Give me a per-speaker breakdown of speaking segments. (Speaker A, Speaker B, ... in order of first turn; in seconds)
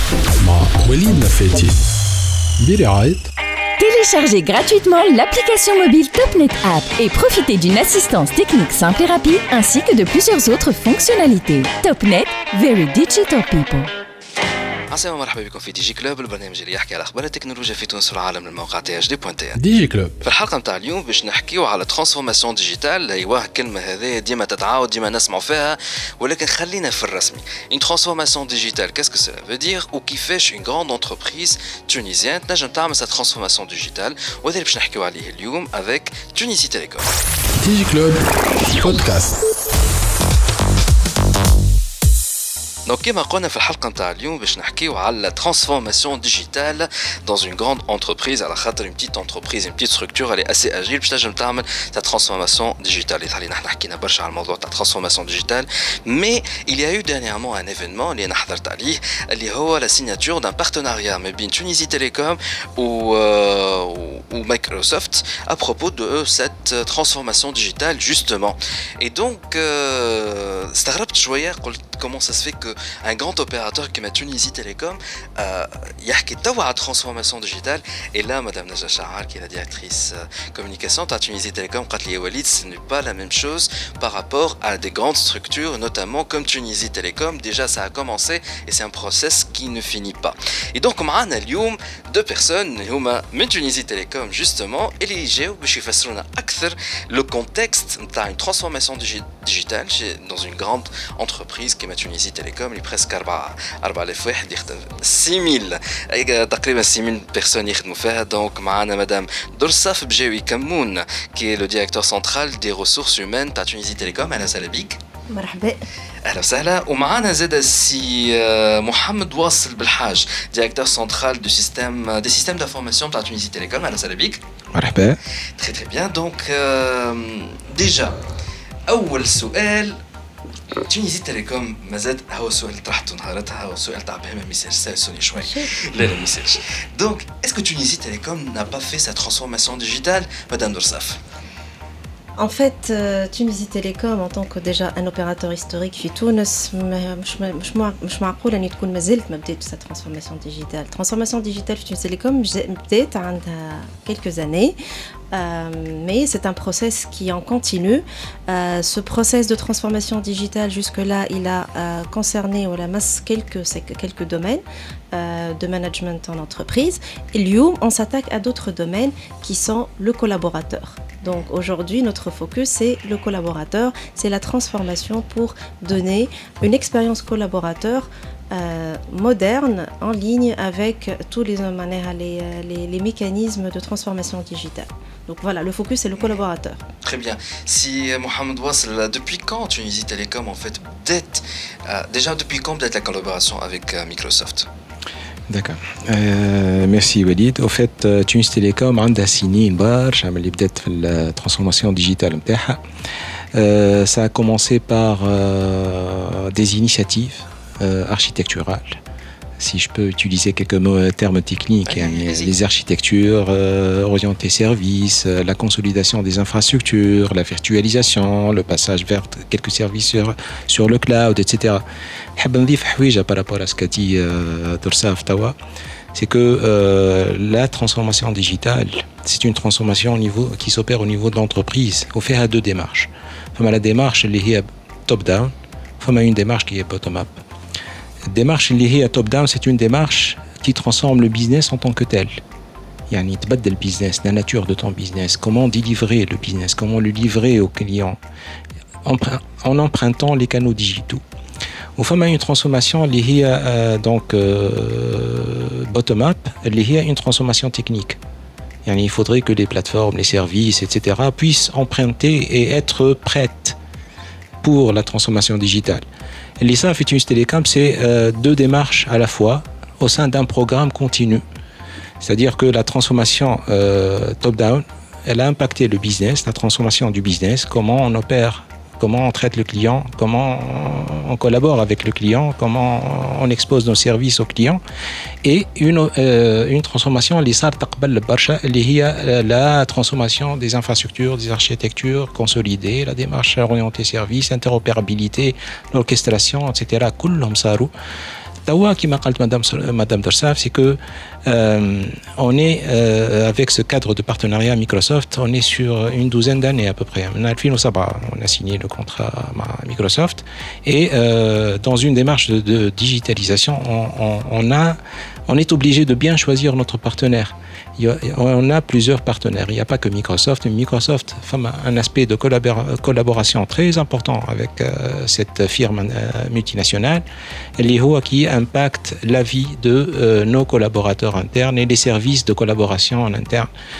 Speaker A: 0.4-1.8, 2.6-3.3, 19.5-20.2, 37.6-39.4
Speaker B: 3.8-13.9
Speaker C: 14.9-19.6, 20.2-37.1, 42.9-115.0, 116.2-124.4, 125.6-128.2, 128.9-130.0, 130.8-141.2, 187.0-194.7, 211.8-212.5
Speaker D: 115.3-115.8, 135.3-135.7, 142.4-154.8, 155.3-186.8
Speaker E: 124.7-125.2, 195.5-202.8, 203.5-209.0, 209.6-221.8, 222.4-225.6, 226.1-237.4, 238.3-242.3, 243.1-248.2, 249.0-251.2, 251.9-258.2, 258.8-263.8, 264.6-266.0, 266.6-271.4, 272.2-284.8, 285.4-297.9, 298.6-327.2, 327.8-333.7